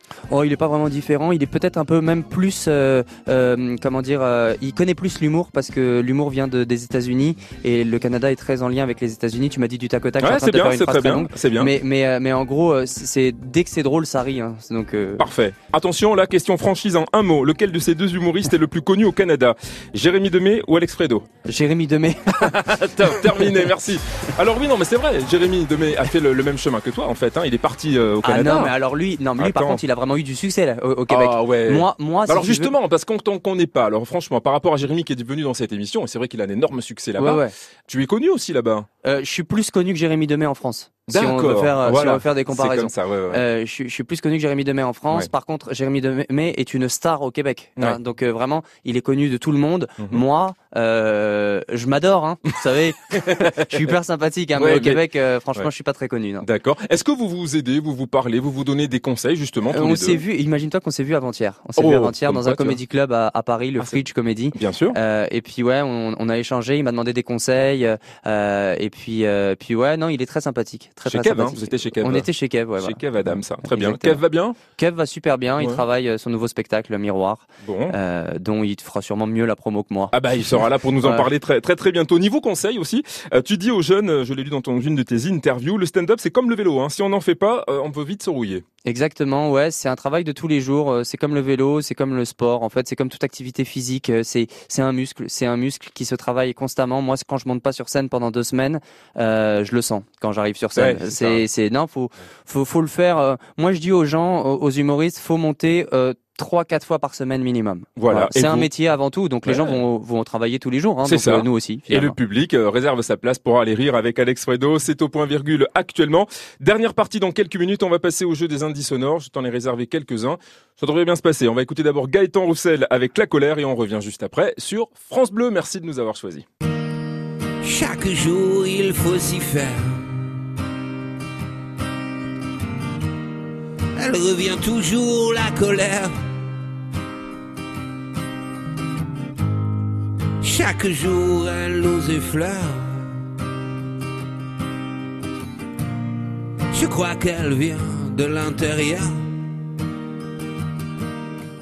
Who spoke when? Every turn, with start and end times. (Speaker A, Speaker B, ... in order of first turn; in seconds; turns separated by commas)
Speaker A: 0.3-15.2, Speaker B: 10.2-11.7, Speaker B: 15.2-21.3, Speaker A: 21.5-22.6, Speaker B: 22.4-28.8, Speaker A: 28.2-32.7, Speaker B: 29.4-29.8, Speaker B: 31.1-38.9, Speaker A: 37.2-37.5, Speaker A: 39.0-56.5, Speaker B: 41.1-43.4, Speaker B: 53.1-53.8, Speaker B: 54.6-55.0, Speaker B: 56.4-60.2, Speaker A: 59.7-74.2, Speaker B: 61.8-62.8, Speaker B: 64.5-65.0, Speaker B: 71.1-74.6, Speaker A: 74.8-80.1, Speaker B: 77.6-78.0, Speaker B: 80.1-88.6, Speaker A: 88.8-112.2, Speaker B: 100.8-101.4, Speaker B: 108.0-108.7, Speaker B: 109.5-109.8, Speaker B: 111.1-126.5, Speaker C: 127.6-130.0, Speaker C: 134.0-136.1, Speaker C: 140.4-143.1, Speaker C: 146.7-149.1